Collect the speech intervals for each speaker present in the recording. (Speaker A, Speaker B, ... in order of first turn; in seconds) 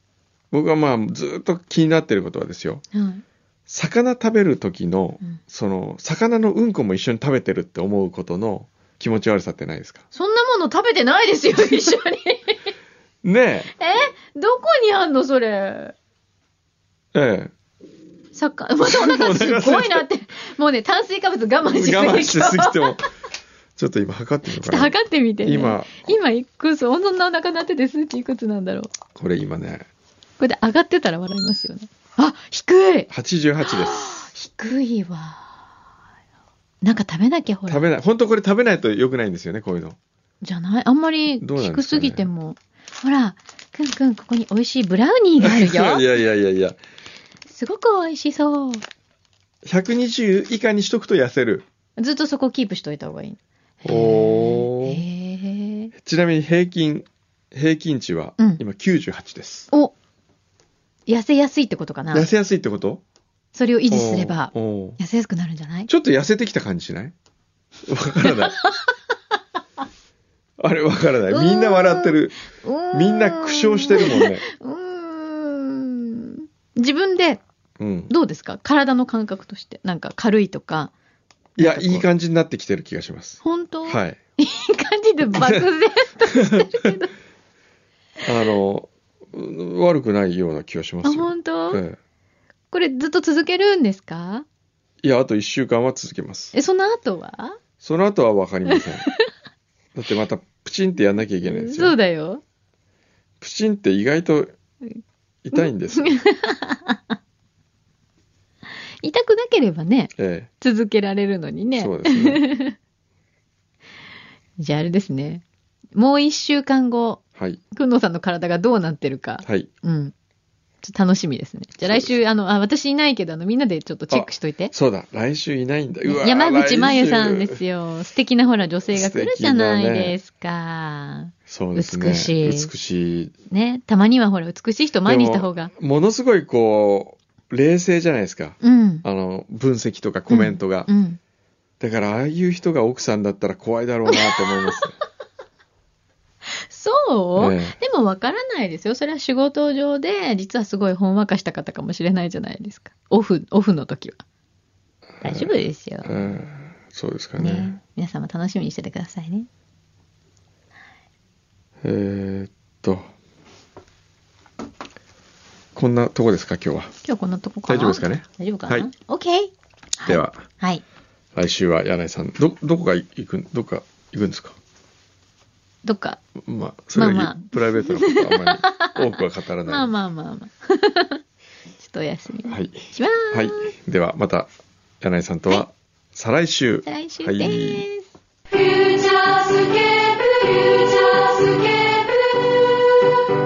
Speaker A: 0.5-2.8, 3.7-10.0, 13.2-13.7, 17.1-17.5, 18.8-20.1, 21.7-23.0, 23.8-26.1, 29.1-29.9, 33.1-34.1, 37.7-40.0, 41.4-42.3, 45.4-46.8, 49.6-51.6, 53.8-55.0, 56.0-59.7, 62.1-63.0, 63.9-65.0, 65.9-67.1, 67.9-68.6, 70.6-72.3, 72.9-74.5, 77.8-78.1, 81.5-84.2, 86.3-86.9, 88.2-92.0, 95.0-96.5, 97.8-99.1, 99.9-102.0, 103.4-104.5, 105.4-106.2, 110.2-110.5, 111.8-112.4, 124.1-127.6, 128.9-130.2, 131.5-133.3, 135.1-140.9, 141.8-144.9, 147.4-147.8, 155.2-155.5, 156.0-157.8, 161.8-163.1, 165.7-166.9, 167.7-168.9, 170.1-170.5, 171.3-174.6, 176.4-179.9, 182.4-184.5, 185.0-187.8
Speaker B: 2.9-3.2, 10.1-12.6, 13.8-15.9, 18.3-23.0, 24.5-28.9, 30.4-33.1, 33.6-35.6, 36.8-37.9, 40.4-46.1, 47.5-48.8, 52.0-55.9, 61.1-62.3, 63.5-65.9, 68.2-68.9, 71.3-77.4, 78.1-80.9, 81.6-82.0, 83.4-87.1, 91.0-91.8, 92.7-94.4, 96.5-97.6, 98.7-99.1, 101.4-102.4, 105.5-107.1, 109.0-112.8, 114.6-115.4, 115.9-120.1, 120.8-124.7, 126.0-132.7, 133.5-135.7, 138.6-139.0, 140.3-141.2, 146.7-154.2, 155.2-156.1, 157.4-159.5, 167.0-170.8, 175.8-176.2, 176.9-179.0, 179.7-181.2, 181.8-183.7, 186.8-188.1
Speaker C: 188.5-193.1